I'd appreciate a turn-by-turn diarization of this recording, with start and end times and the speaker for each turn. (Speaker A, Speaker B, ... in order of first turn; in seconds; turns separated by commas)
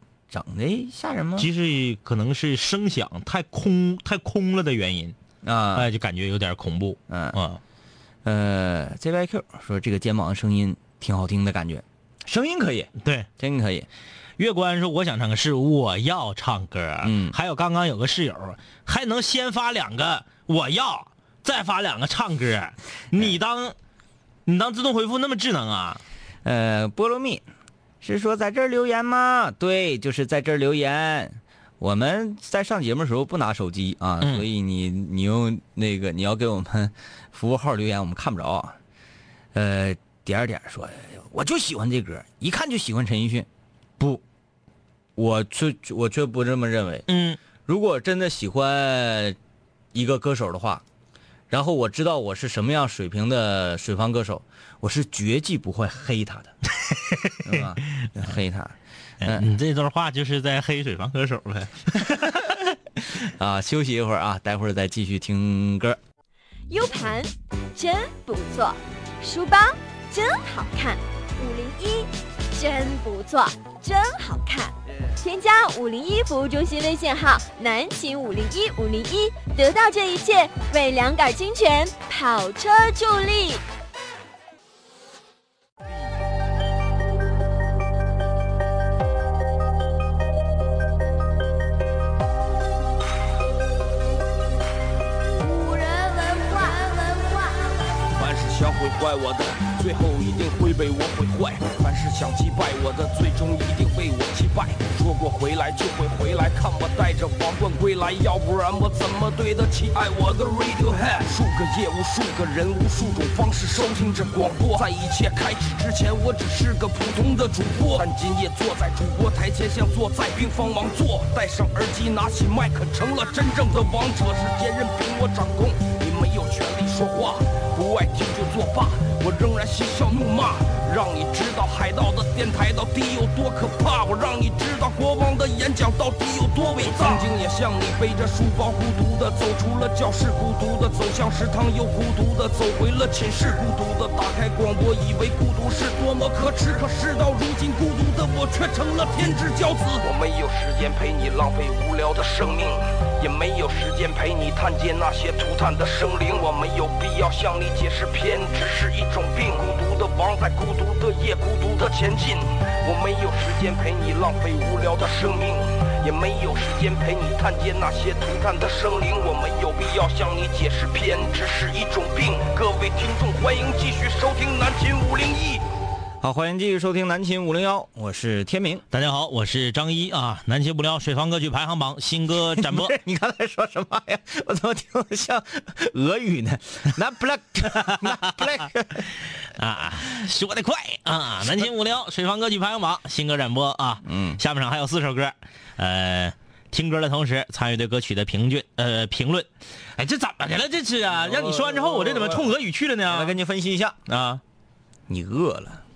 Speaker A: 0.3-1.5, Speaker B: 1.4-5.2, Speaker A: 5.4-5.9, Speaker B: 5.7-7.6, Speaker A: 7.1-7.4, Speaker A: 8.2-13.9, Speaker B: 13.0-13.3, Speaker B: 14.4-23.8, Speaker A: 17.0-17.4, Speaker B: 24.5-26.0, Speaker A: 26.4-27.5, Speaker A: 28.0-38.8, Speaker A: 39.5-43.5, Speaker A: 45.2-47.1, Speaker B: 47.1-47.4, Speaker A: 47.7-49.4, Speaker A: 49.9-50.8, Speaker A: 51.5-56.5, Speaker B: 56.9-58.1, Speaker A: 57.4-59.5, Speaker B: 59.2-62.1, Speaker A: 62.3-62.5, Speaker A: 63.1-66.0, Speaker C: 66.7-83.6, Speaker D: 95.4-97.8, Speaker E: 98.1-175.7, Speaker A: 176.2-178.8, Speaker B: 178.9-182.9, Speaker A: 182.4-189.1, Speaker B: 187.9-188.5, Speaker B: 189.4-203.3, Speaker A: 194.0-194.4, Speaker A: 201.1-202.5, Speaker A: 203.1-204.0, Speaker B: 204.1-204.4, Speaker A: 205.1-205.8